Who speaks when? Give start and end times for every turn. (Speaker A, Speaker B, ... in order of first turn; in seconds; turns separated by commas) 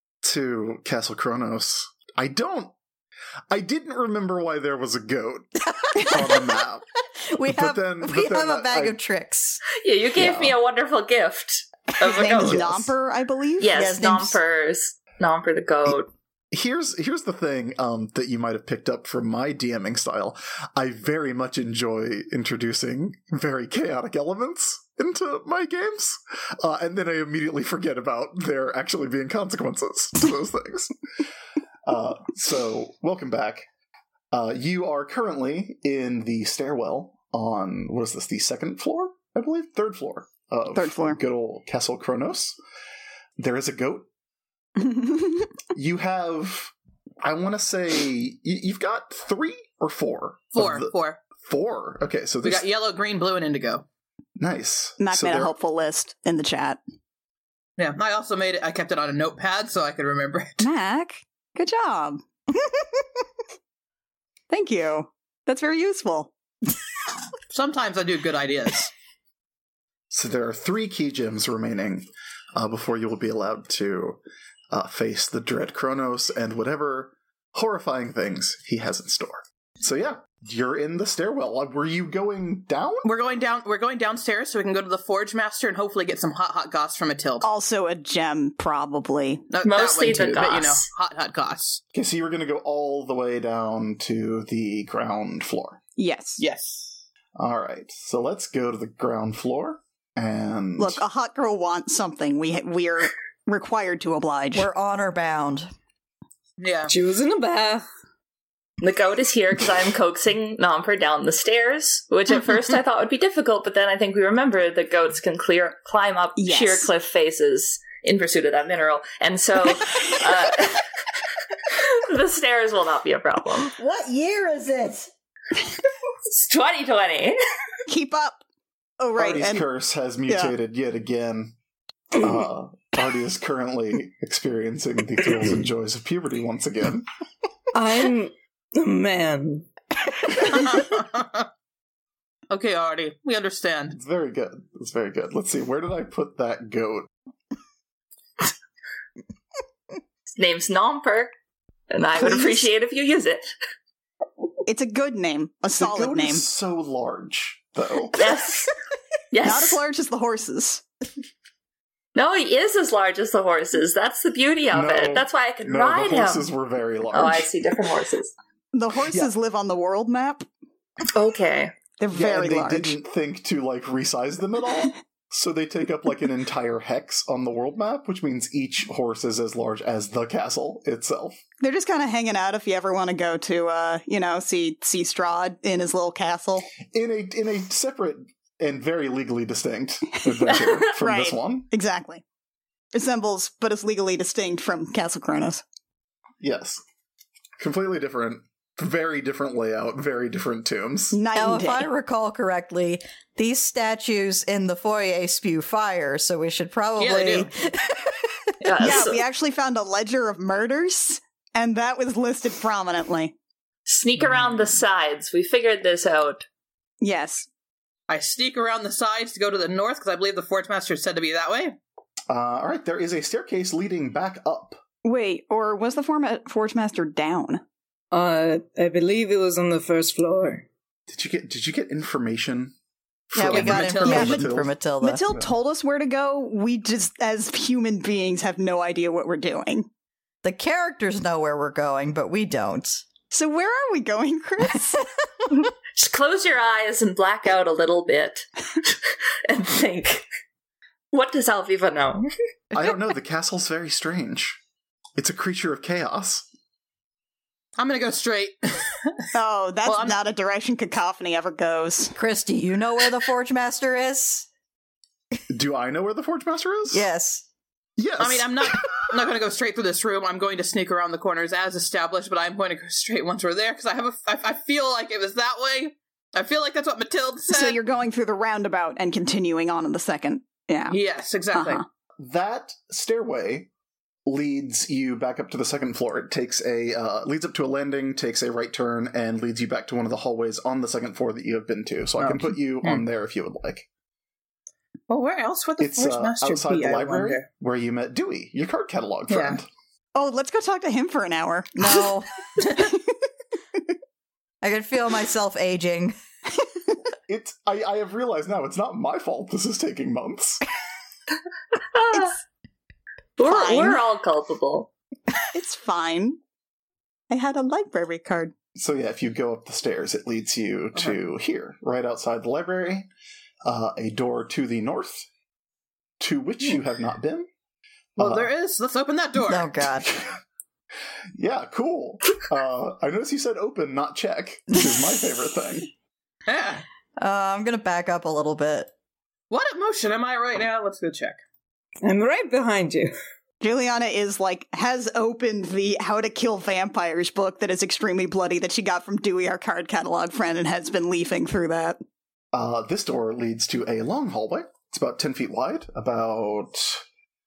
Speaker A: 0.2-2.7, Speaker A: 3.5-6.8, Speaker B: 5.7-6.5, Speaker B: 7.2-9.6, Speaker A: 7.5-9.0, Speaker C: 9.7-12.7, Speaker A: 10.2-10.6, Speaker D: 12.0-14.0, Speaker A: 12.4-12.9, Speaker C: 13.6-16.1, Speaker B: 13.7-14.4, Speaker A: 16.5-30.9, Speaker A: 31.8-33.7, Speaker A: 34.3-42.6, Speaker D: 40.7-41.2, Speaker A: 43.4-44.1, Speaker D: 44.8-45.5, Speaker A: 45.7-52.7, Speaker E: 50.5-51.2, Speaker E: 52.4-53.8, Speaker A: 54.4-55.5, Speaker D: 55.0-56.8, Speaker E: 57.8-60.7, Speaker D: 60.6-63.0, Speaker D: 64.5-66.3, Speaker E: 67.5-68.9, Speaker A: 70.1-74.2, Speaker A: 74.7-83.1, Speaker E: 83.0-87.5, Speaker D: 87.4-89.5, Speaker E: 89.5-91.8, Speaker C: 89.6-90.8, Speaker A: 91.9-95.8, Speaker D: 96.0-96.4, Speaker E: 96.4-97.0, Speaker A: 97.3-101.0, Speaker D: 100.8-104.7, Speaker B: 104.5-105.7, Speaker E: 106.6-106.9, Speaker F: 106.9-107.8, Speaker C: 108.8-120.9, Speaker D: 116.4-116.9, Speaker C: 121.5-123.7, Speaker B: 123.8-125.1, Speaker C: 126.3-127.4, Speaker D: 127.9-128.4, Speaker D: 129.0-129.7, Speaker A: 129.1-131.5, Speaker D: 130.3-130.5, Speaker A: 132.1-137.1, Speaker F: 137.7-139.7, Speaker E: 140.4-141.4, Speaker E: 142.5-144.0, Speaker A: 143.9-147.1, Speaker C: 150.3-151.3, Speaker C: 151.9-153.5, Speaker D: 152.2-152.6, Speaker D: 154.7-156.4, Speaker A: 155.7-158.2, Speaker C: 158.2-158.7, Speaker C: 159.3-159.8, Speaker D: 159.4-160.8, Speaker C: 162.1-166.5, Speaker A: 164.7-167.5, Speaker C: 167.1-168.3, Speaker D: 168.7-170.4, Speaker A: 169.1-169.3, Speaker C: 171.1-171.7, Speaker D: 172.0-172.9, Speaker A: 172.1-181.4, Speaker D: 181.6-186.7, Speaker A: 186.8-191.7, Speaker D: 190.3-192.2, Speaker D: 192.9-195.6, Speaker A: 196.4-196.8, Speaker A: 197.6-201.2, Speaker D: 201.1-201.9, Speaker B: 201.3-208.3, Speaker E: 207.0-207.5, Speaker C: 208.6-209.2, Speaker D: 208.8-213.3, Speaker C: 213.8-216.4, Speaker D: 217.0-217.5, Speaker E: 218.1-221.8, Speaker A: 222.3-224.8, Speaker D: 225.0-227.6, Speaker F: 228.1-230.6, Speaker A: 231.1-232.7, Speaker A: 233.3-234.7, Speaker B: 233.3-235.2, Speaker E: 233.4-234.4, Speaker D: 234.0-234.5, Speaker D: 235.0-239.9, Speaker B: 240.4-243.1, Speaker D: 243.3-245.1, Speaker C: 245.5-250.2, Speaker C: 251.1-252.3, Speaker A: 252.7-254.6, Speaker A: 255.2-256.5, Speaker E: 257.8-259.3, Speaker D: 259.3-262.1, Speaker E: 259.8-260.2, Speaker B: 262.1-264.5, Speaker A: 265.5-267.1, Speaker B: 266.9-267.4, Speaker A: 268.0-268.9, Speaker E: 268.2-277.8, Speaker D: 277.5-281.0, Speaker E: 280.9-281.8, Speaker D: 281.5-281.8, Speaker A: 282.2-283.7, Speaker A: 284.2-293.9, Speaker E: 292.2-293.0, Speaker E: 295.1-297.4, Speaker A: 295.8-299.7, Speaker E: 299.3-299.6, Speaker D: 300.1-303.1, Speaker B: 301.9-302.3, Speaker B: 304.6-306.1, Speaker A: 307.3-310.6, Speaker C: 311.9-312.4, Speaker C: 313.4-314.9, Speaker D: 313.4-314.0, Speaker D: 315.5-316.4, Speaker D: 317.3-318.5, Speaker A: 318.7-323.1, Speaker A: 323.6-325.3, Speaker A: 326.2-327.5, Speaker A: 328.2-328.5, Speaker E: 328.2-329.7, Speaker B: 329.5-330.1, Speaker A: 330.0-330.4, Speaker A: 331.3-335.9, Speaker E: 336.5-336.8, Speaker B: 337.2-338.9, Speaker E: 339.5-341.4, Speaker F: 342.0-343.1, Speaker D: 343.6-352.0, Speaker A: 352.5-357.0